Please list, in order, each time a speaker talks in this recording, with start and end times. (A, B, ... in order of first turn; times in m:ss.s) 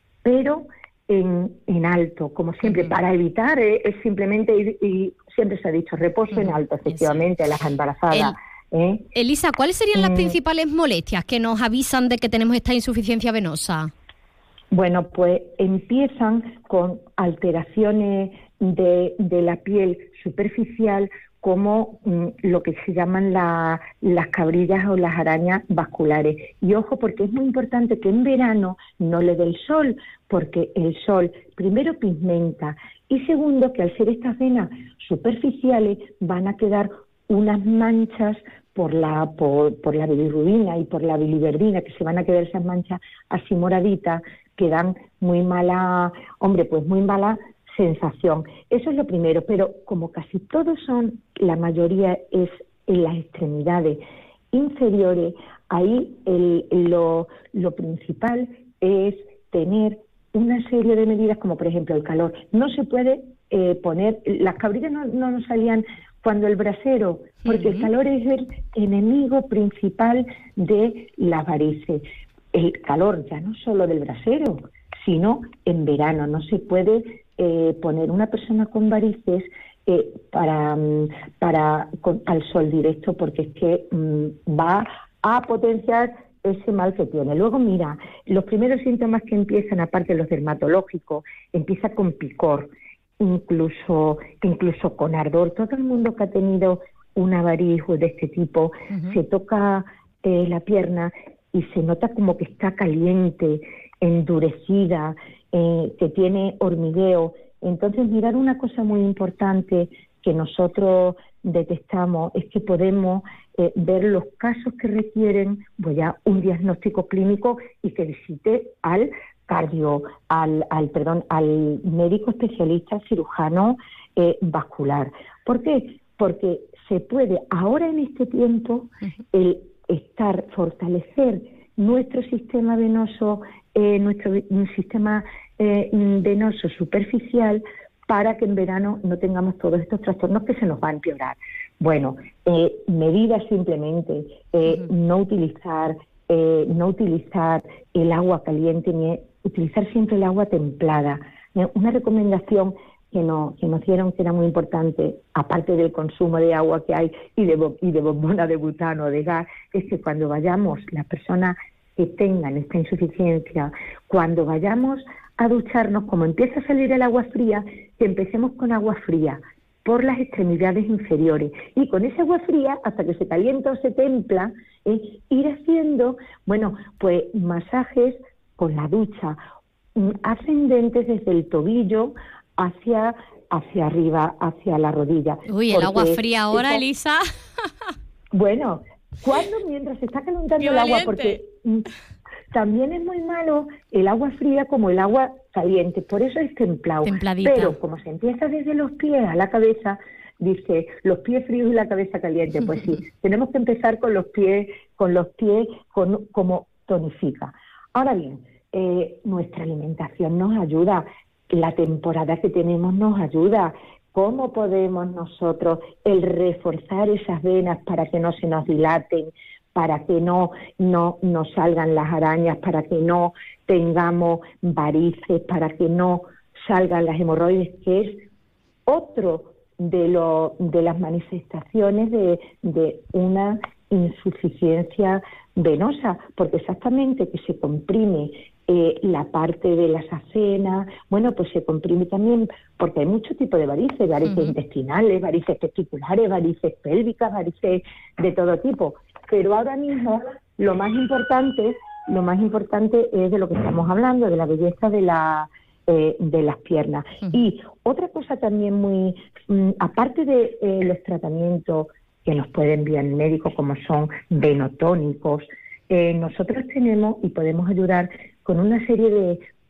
0:00.2-0:09.0 A
0:02.6-0:02.9 B
0:06.3-0:07.3 B
0:08.1-0:08.4 B
0:09.1-0:13.9 B
0:09.9-0:10.3 A
0:14.7-0:54.0 A
0:54.5-2:59.4 A
1:07.4-1:07.9 B
1:38.9-1:39.2 B
3:00.0-3:06.8 A
3:05.5-3:07.2 B
3:08.3-3:11.9 A
3:10.6-3:11.4 B
3:12.5-3:48.2 A
3:17.0-3:17.8 B
3:48.9-4:29.4 A
4:04.2-4:04.5 B